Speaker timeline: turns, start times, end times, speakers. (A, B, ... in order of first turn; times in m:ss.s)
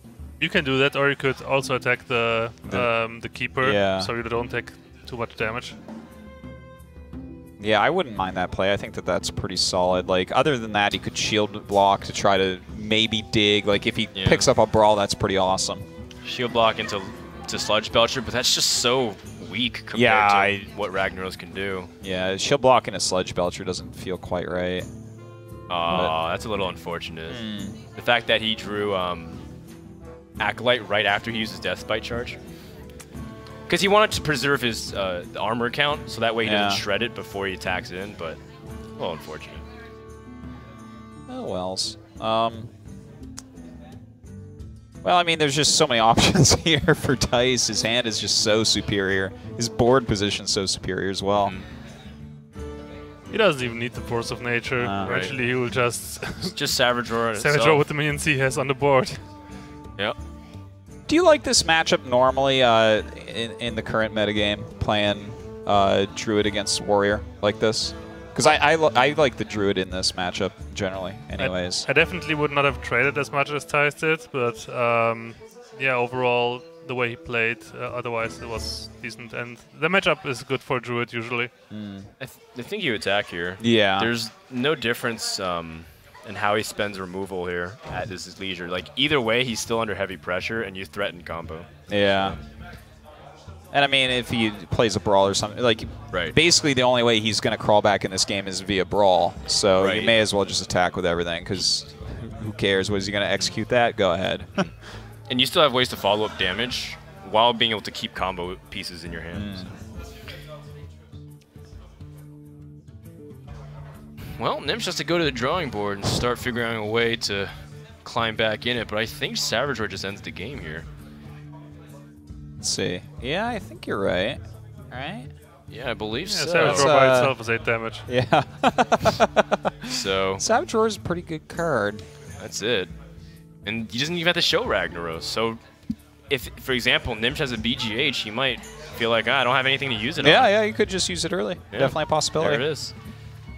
0:00.4-0:05.8 A
0:03.6-0:04.1 B
0:07.6-0:15.9 B
0:14.2-0:14.5 C
0:16.2-0:21.9 C
0:19.9-0:20.7 B
0:22.0-0:24.9 B
0:25.7-0:27.4 C
0:27.3-0:27.8 B
0:28.0-0:29.4 C
0:30.4-0:32.4 C
0:33.7-0:38.4 C
0:36.4-0:36.8 B
0:39.0-0:39.6 C
0:41.3-0:42.7 B
0:45.0-0:51.6 B
0:51.4-0:51.7 C
0:53.3-0:56.7 A
0:54.8-0:55.2 B
0:55.0-0:55.4 C
0:56.5-0:57.8 C
0:57.4-0:59.2 A
1:01.1-1:11.9 B
1:11.4-1:21.5 A
1:21.7-1:22.1 B
1:22.2-1:32.4 C
1:23.6-1:24.1 B
1:31.9-1:32.4 B
1:33.7-1:44.7 B
1:39.8-1:40.2 C
1:45.3-1:49.7 C
1:49.3-1:49.7 B
1:54.3-2:00.9 C
2:02.6-2:04.4 B
2:04.9-2:05.3 B
2:05.7-2:06.9 C
2:06.2-2:08.1 A
2:06.6-2:07.4 B
2:08.1-2:12.0 B
2:09.9-2:10.4 C
2:12.4-2:12.9 C
2:13.6-2:15.6 C
2:16.3-2:20.5 C
2:20.2-2:22.7 B
2:21.7-2:23.0 C